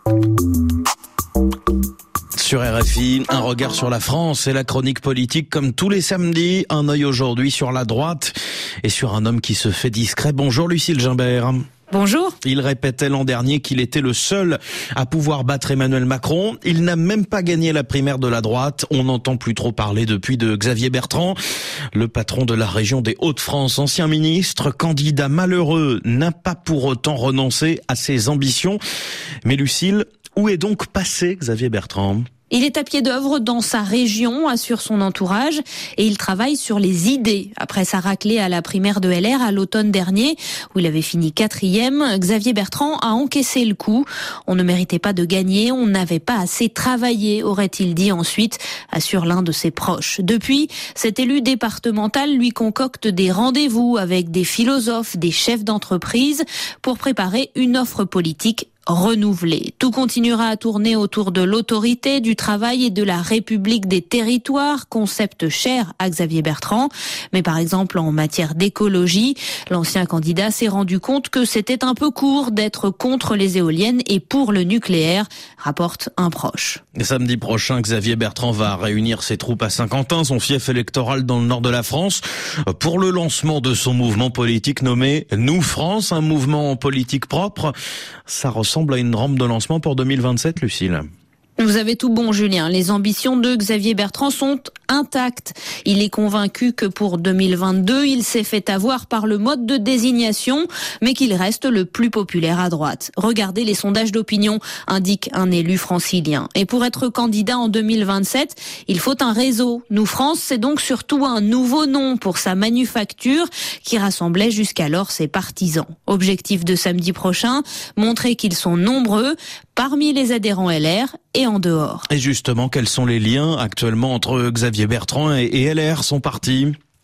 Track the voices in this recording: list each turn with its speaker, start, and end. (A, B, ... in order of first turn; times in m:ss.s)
0:02.4-0:11.6 A
0:11.9-0:12.4 B
0:12.4-0:21.4 A
0:21.9-0:28.8 A
0:29.4-0:32.2 A
0:32.5-1:16.8 B
1:16.9-1:27.7 A
1:28.3-1:31.0 A
1:31.6-2:02.1 B
2:02.1-2:06.7 A